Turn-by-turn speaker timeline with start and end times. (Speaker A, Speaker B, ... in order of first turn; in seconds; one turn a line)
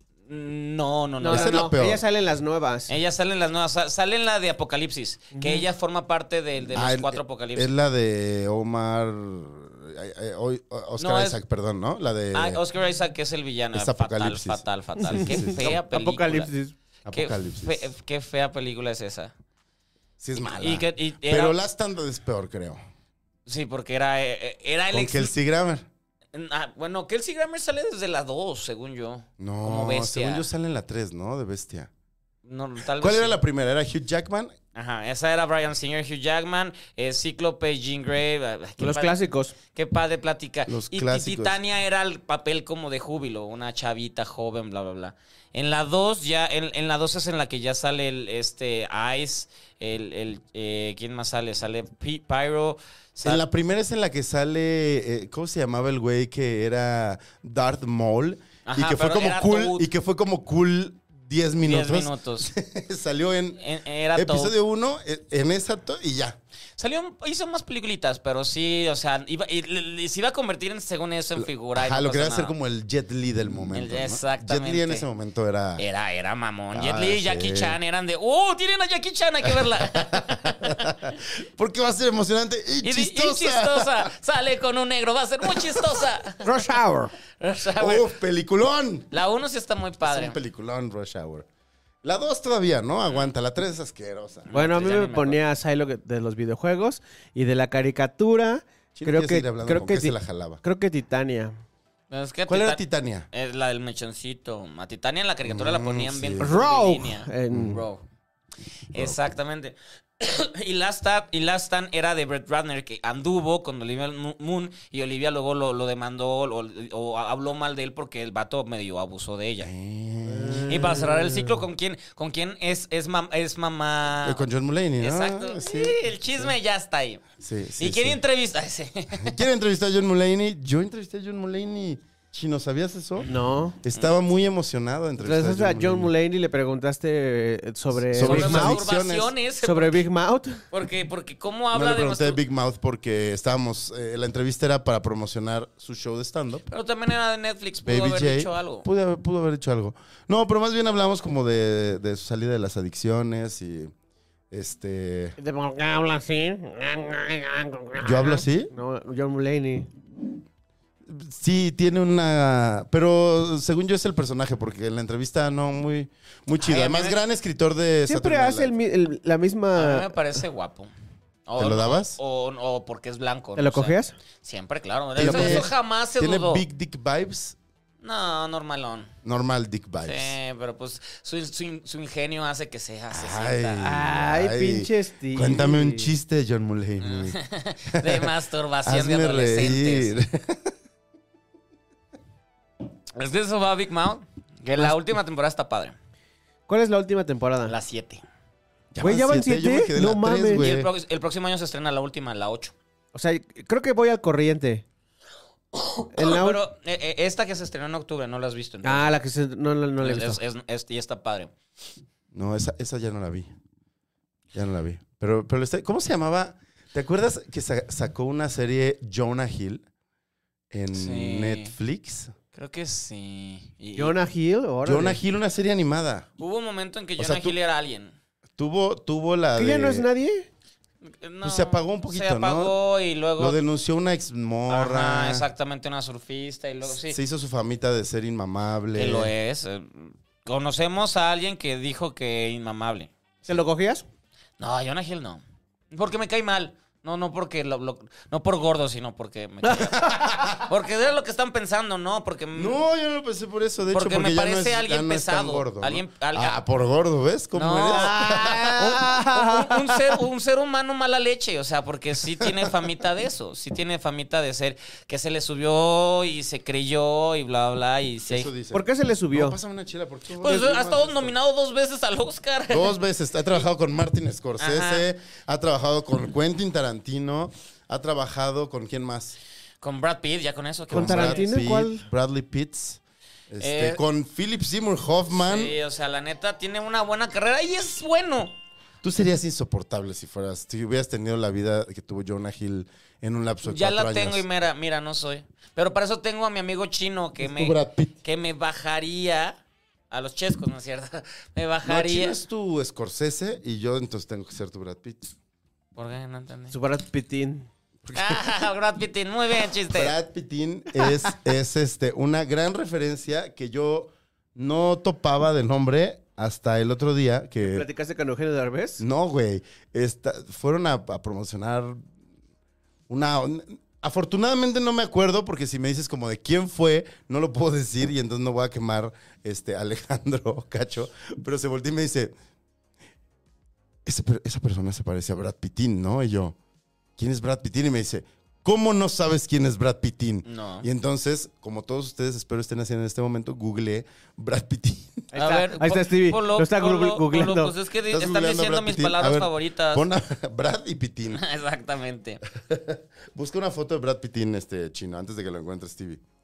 Speaker A: 0.3-1.7
Speaker B: 1.2-2.9
Speaker C: 1.2-2.0
Speaker A: 2.9-7.7
Speaker B: 5.3-5.6
Speaker C: 6.7-12.6
Speaker A: 11.0-11.4
Speaker A: 12.3-16.5
Speaker C: 13.7-15.8
Speaker B: 15.1-16.7
Speaker C: 17.1-17.9
Speaker A: 17.1-19.3
Speaker C: 20.2-22.8
Speaker A: 20.4-21.6
Speaker A: 23.4-25.3
Speaker C: 24.9-25.9
Speaker A: 26.3-30.4
Speaker C: 29.4-31.9
Speaker A: 32.4-33.4
Speaker C: 32.9-34.5
Speaker A: 34.7-53.4
Speaker B: 38.8-39.5
Speaker C: 40.7-41.6
Speaker C: 53.2-63.6
Speaker A: 58.6-59.9
Speaker A: 61.6-62.5
Speaker A: 63.6-64.5
Speaker C: 64.1-66.4
Speaker A: 66.8-72.5
Speaker C: 71.4-75.8
Speaker A: 73.7-75.1
Speaker A: 75.8-81.1
Speaker C: 76.7-77.8
Speaker C: 79.4-84.1
Speaker A: 82.8-86.6
Speaker C: 85.4-86.1
Speaker B: 86.4-87.1
Speaker A: 87.4-88.1
Speaker C: 87.8-89.1
Speaker A: 89.1-90.4
Speaker C: 90.0-91.5
Speaker C: 92.0-94.5
Speaker A: 93.0-93.3
Speaker A: 94.5-95.4
Speaker B: 94.5-101.6
Speaker C: 98.9-100.6
Speaker A: 102.1-102.8
Speaker C: 102.5-103.3
Speaker A: 103.3-108.0
Speaker C: 105.5-106.5
Speaker B: 106.4-107.8
Speaker C: 107.5-107.8
Speaker A: 108.9-119.7
Speaker C: 119.6-121.6
Speaker B: 120.3-121.0
Speaker A: 120.7-124.4
Speaker C: 124.2-126.5
Speaker A: 125.0-127.2
Speaker C: 127.4-128.2
Speaker A: 127.8-129.4
Speaker C: 129.2-136.1
Speaker B: 133.3-133.8
Speaker B: 135.2-138.8
Speaker C: 138.1-139.3
Speaker A: 138.2-140.0
Speaker B: 139.6-140.6
Speaker A: 140.7-142.4
Speaker C: 141.7-146.6
Speaker A: 146.7-148.8
Speaker C: 147.8-153.9
Speaker C: 154.5-155.4
Speaker B: 155.4-159.9
Speaker C: 158.0-158.7
Speaker C: 161.0-168.7
Speaker A: 166.6-167.2
Speaker B: 168.1-170.1
Speaker A: 169.7-170.9
Speaker A: 171.5-176.6
Speaker C: 171.6-172.2
Speaker B: 173.6-174.2
Speaker C: 175.2-177.6
Speaker B: 175.2-175.6
Speaker A: 178.0-179.1
Speaker C: 179.2-180.3
Speaker A: 180.0-183.9
Speaker C: 183.1-187.4
Speaker B: 183.8-186.1
Speaker A: 187.0-190.1
Speaker C: 187.9-188.3
Speaker C: 188.8-190.7
Speaker A: 193.2-195.9
Speaker B: 196.7-197.8
Speaker A: 197.7-198.2
Speaker C: 198.9-200.9
Speaker B: 199.0-200.7
Speaker A: 200.6-202.7
Speaker B: 203.1-204.8
Speaker A: 205.7-209.2
Speaker B: 206.1-206.6
Speaker B: 208.8-210.4
Speaker A: 210.0-211.5
Speaker C: 212.3-213.5
Speaker C: 214.5-219.8
Speaker C: 220.7-222.3
Speaker A: 220.9-221.7
Speaker A: 222.5-224.2
Speaker B: 223.9-225.2
Speaker C: 224.8-226.2
Speaker A: 226.4-228.1
Speaker C: 227.2-227.6
Speaker C: 228.6-230.1
Speaker B: 229.6-230.5
Speaker A: 231.0-233.6
Speaker C: 231.4-232.7
Speaker C: 233.4-235.5
Speaker A: 234.7-237.2
Speaker C: 236.8-239.3
Speaker A: 238.9-243.1
Speaker B: 243.4-244.0
Speaker A: 244.6-252.8
Speaker B: 249.6-250.5
Speaker C: 250.1-250.6
Speaker C: 252.5-258.9
Speaker A: 253.9-256.6
Speaker A: 257.5-268.5
Speaker B: 257.9-260.2
Speaker C: 262.4-262.7
Speaker C: 268.3-271.3
Speaker B: 268.7-269.6
Speaker A: 270.4-273.0
Speaker C: 272.7-279.4
Speaker A: 274.6-275.0
Speaker A: 279.8-281.5
Speaker C: 280.9-285.8
Speaker B: 280.9-282.0
Speaker A: 283.6-284.0
Speaker A: 285.4-288.6
Speaker C: 289.0-294.4
Speaker A: 293.6-299.6
Speaker C: 297.4-298.1
Speaker A: 300.1-302.4
Speaker C: 301.8-305.3
Speaker A: 305.9-306.8
Speaker B: 306.7-307.7
Speaker C: 308.0-308.4
Speaker A: 308.1-310.1
Speaker C: 309.9-317.9
Speaker B: 317.6-319.0
Speaker C: 319.0-322.0
Speaker C: 323.1-332.3
Speaker C: 334.0-336.6
Speaker C: 337.2-345.3
Speaker A: 340.4-340.9
Speaker B: 345.3-347.7
Speaker A: 345.3-350.1
Speaker C: 348.1-351.4
Speaker A: 351.3-352.4
Speaker C: 352.5-356.2